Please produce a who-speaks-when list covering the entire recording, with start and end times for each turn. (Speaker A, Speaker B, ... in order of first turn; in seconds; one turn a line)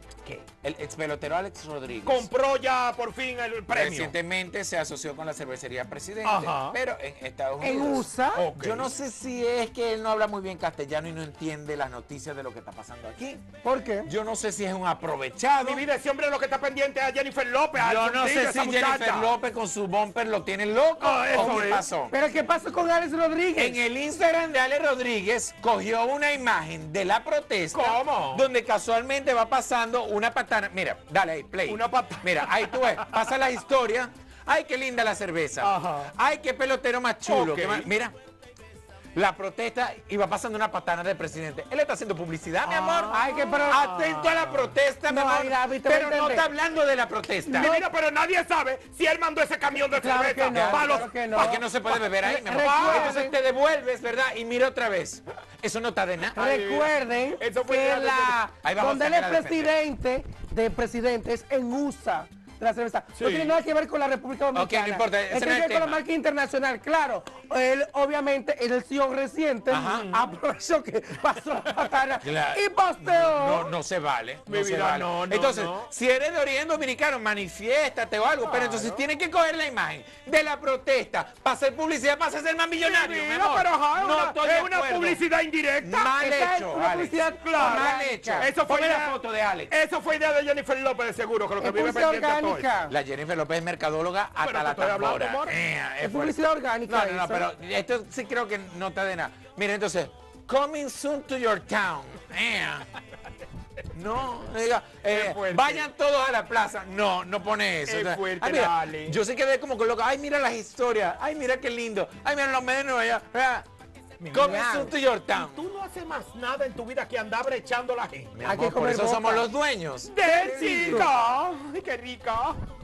Speaker A: 0.6-2.3
Speaker B: 2.0-4.1
Speaker A: 3.7-13.4
Speaker B: 6.2-6.8
Speaker C: 7.6-8.5
Speaker B: 8.3-8.9
Speaker C: 13.6-14.1
Speaker A: 14.0-15.8
Speaker B: 15.6-19.3
Speaker A: 17.8-22.1
Speaker B: 21.0-21.8
Speaker C: 21.3-23.8
Speaker A: 23.5-38.1
Speaker B: 27.7-28.4
Speaker B: 31.6-33.3
Speaker B: 35.6-36.1
Speaker B: 37.2-37.9
Speaker A: 39.1-47.7
Speaker C: 42.6-43.9
Speaker B: 43.1-44.7
Speaker C: 45.0-46.5
Speaker B: 47.5-52.0
Speaker C: 47.5-47.9
Speaker C: 49.9-53.3
Speaker A: 50.5-56.4
Speaker B: 52.5-53.1
Speaker B: 56.3-58.4
Speaker C: 56.4-73.7
Speaker A: 58.6-59.8
Speaker B: 63.2-63.6
Speaker A: 64.5-66.0
Speaker A: 69.7-70.1
Speaker B: 69.7-70.2
Speaker A: 72.2-85.2
Speaker B: 74.5-75.9
Speaker B: 78.4-79.0
Speaker B: 82.8-86.1
Speaker A: 85.8-89.7
Speaker C: 86.2-88.5
Speaker B: 87.4-89.2
Speaker B: 89.7-92.7
Speaker C: 91.6-92.9
Speaker A: 92.9-96.3
Speaker B: 94.4-95.5
Speaker C: 96.0-97.4
Speaker A: 96.9-102.8
Speaker A: 103.9-113.7
Speaker B: 105.0-105.9
Speaker B: 107.8-109.2
Speaker B: 114.2-114.7
Speaker C: 114.3-114.9
Speaker A: 114.3-115.6
Speaker B: 115.3-118.3
Speaker A: 118.3-121.1
Speaker C: 118.4-119.5
Speaker B: 120.1-122.6
Speaker C: 120.2-121.1